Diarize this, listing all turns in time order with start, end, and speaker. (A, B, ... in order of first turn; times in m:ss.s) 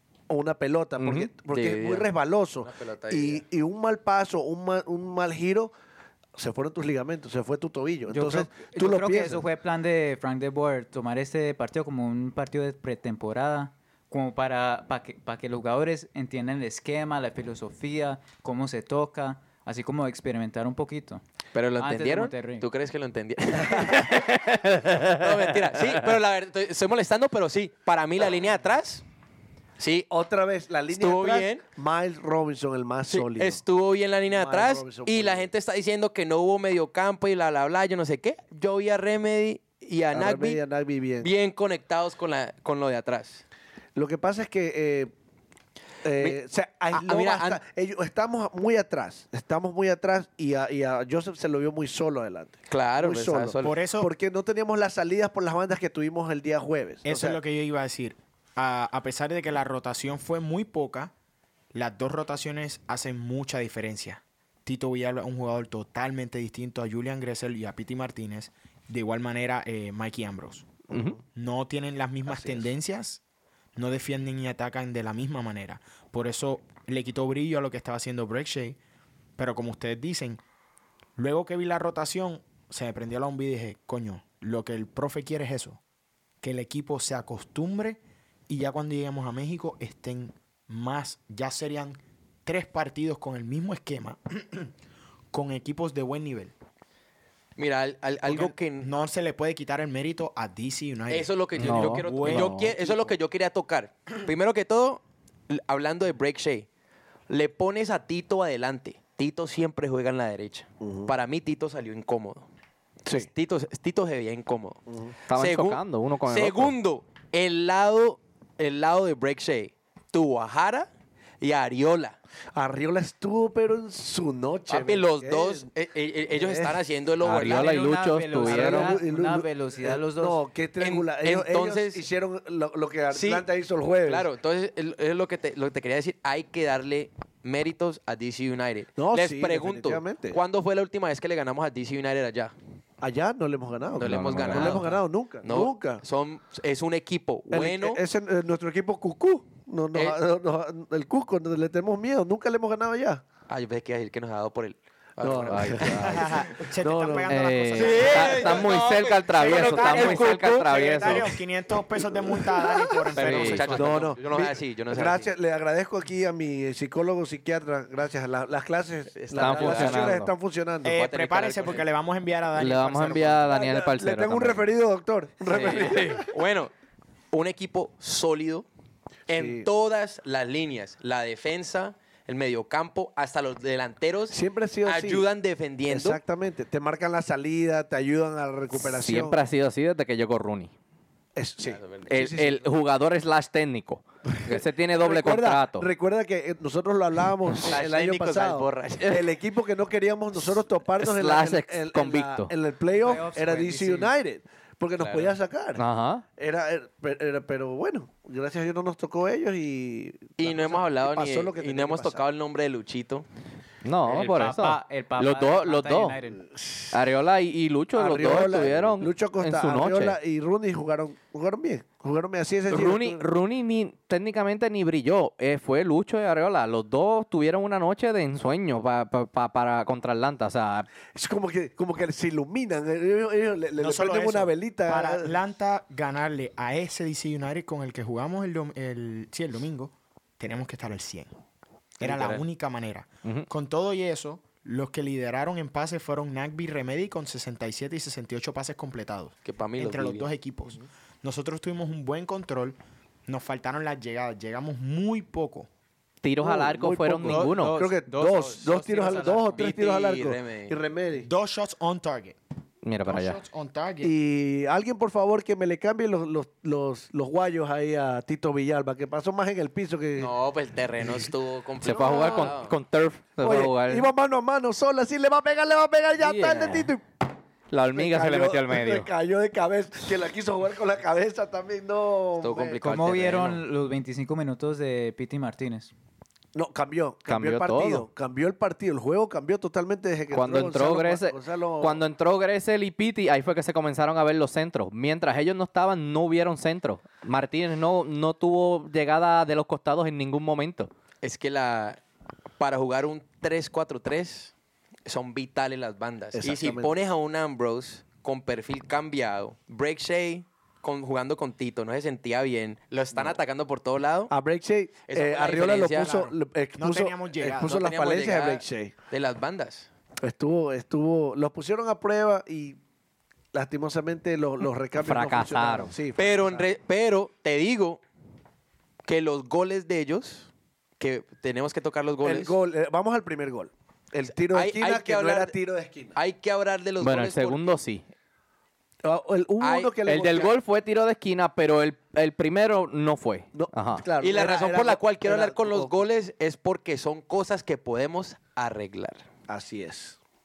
0:00.3-0:05.7 A
0:01.0-0:01.3 B
0:01.5-0:02.1 C
0:02.6-0:03.4 C
0:06.4-0:09.4 A
0:08.1-0:21.2 D
0:21.5-0:24.4 C
0:21.8-0:22.7 D
0:23.9-0:25.3 B
0:25.0-0:29.0 C
0:29.8-0:30.1 C
0:30.1-0:33.6 A
0:30.9-0:31.6 C
0:33.1-0:40.6 C
0:34.3-0:35.5 A
0:40.1-0:41.3 A
0:41.2-0:43.4 C
0:44.0-0:45.1 A
0:46.0-0:57.4 A
0:46.9-0:47.6 C
0:52.7-0:53.8 C
0:53.6-0:54.1 E
0:57.0-1:01.1 E
1:01.7-1:10.7 E
1:10.9-1:11.2 A
1:11.3-1:13.2 E
1:12.2-1:12.7 A
1:13.7-1:18.8 E
1:19.4-1:20.4 E
1:21.2-1:25.8 E
1:26.4-1:34.7 E
1:35.3-1:36.5 E
1:37.6-1:38.9 C
1:38.2-1:42.7 E
1:41.1-1:46.7 C
1:41.6-1:42.7 B
1:47.3-1:52.4 C
1:50.8-1:51.1 A
1:53.1-2:00.9 C
1:54.9-1:55.1 A
1:55.3-1:56.7 B
2:01.4-2:02.2 C
2:02.5-2:05.7 A
2:04.7-2:07.9 C
2:06.3-2:06.8 A
2:07.2-2:09.0 B
2:07.3-2:10.4 D
2:08.4-2:14.3 A
2:10.8-2:12.0 C
2:13.1-2:13.4 C
2:14.0-2:22.5 C
2:19.0-2:20.4 A
2:23.0-2:26.0 A
2:24.0-2:28.0 C
2:24.0-2:25.0 B
2:27.5-2:33.2 A
2:33.5-2:36.7 C
2:35.2-2:36.0 A
2:35.4-2:36.4 B
2:36.0-2:38.8 E
2:36.8-2:37.4 A
2:37.2-2:41.3 B
2:37.7-2:41.2 C
2:39.3-2:44.0 E
2:43.1-2:45.3 C
2:43.1-2:43.8 B
2:43.7-2:50.9 A
2:49.1-2:50.2 C
2:49.4-2:50.3 B
2:50.8-2:53.6 E
2:50.8-2:51.8 C
2:52.6-2:54.6 B
2:53.5-2:56.3 A
2:55.5-2:56.7 C
2:57.3-2:58.6 C
2:59.3-3:06.2 C
2:59.3-2:59.7 A
3:04.3-3:05.2 A
3:05.9-3:09.4 A
3:08.7-3:10.7 B
3:11.4-3:12.6 A
3:11.6-3:12.1 C
3:12.1-3:15.9 B
3:14.3-3:25.8 A
3:17.6-3:19.2 C
3:21.0-3:22.5 B
3:22.9-3:24.1 D
3:25.0-3:25.3 C
3:25.8-3:26.2 B
3:26.4-3:32.2 A
3:30.4-3:33.2 C
3:33.8-3:36.2 B
3:34.0-3:36.4 D
3:36.4-3:36.9 A
3:36.9-3:40.2 B
3:37.9-3:43.2 A
3:42.7-3:50.9 B
3:51.1-3:55.3 A
3:53.8-4:01.3 E
4:02.0-4:02.4 C
4:02.0-4:15.7 E
4:09.4-4:10.3 C
4:16.2-4:17.8 B
4:16.4-4:21.3 A
4:17.2-4:19.7 D
4:19.1-4:20.7 C
4:21.2-4:22.4 E
4:22.8-4:23.4 B
4:23.0-4:24.1 E
4:24.0-4:30.3 A
4:30.2-4:32.7 C
4:31.8-4:34.1 B
4:31.9-4:32.5 A
4:33.4-4:37.0 A
4:36.2-4:36.9 B
4:37.7-4:39.1 B
4:37.9-4:42.8 A
4:42.4-4:43.6 C
4:42.8-4:45.9 D
4:46.5-4:52.0 A
4:47.3-4:48.1 B
4:50.3-5:00.9 B
5:01.2-5:02.0 C
5:02.6-5:04.5 C
5:05.0-5:14.3 C
5:06.3-5:06.9 A
5:14.3-5:18.9 A
5:15.1-5:16.3 C
5:16.8-5:17.8 E
5:17.6-5:19.9 C
5:20.2-5:22.8 A
5:23.5-5:26.7 A
5:25.0-5:25.9 B
5:26.2-5:28.0 C
5:29.0-5:30.5 C
5:31.0-5:32.5 C
5:32.2-5:36.1 A
5:34.5-5:35.5 C
5:36.1-5:37.8 C
5:37.0-5:38.0 B
5:39.0-5:40.5 A
5:39.6-5:39.9 C
5:40.0-5:44.0 B
5:43.5-5:46.0 A
5:44.2-5:49.2 C
5:49.5-5:50.2 A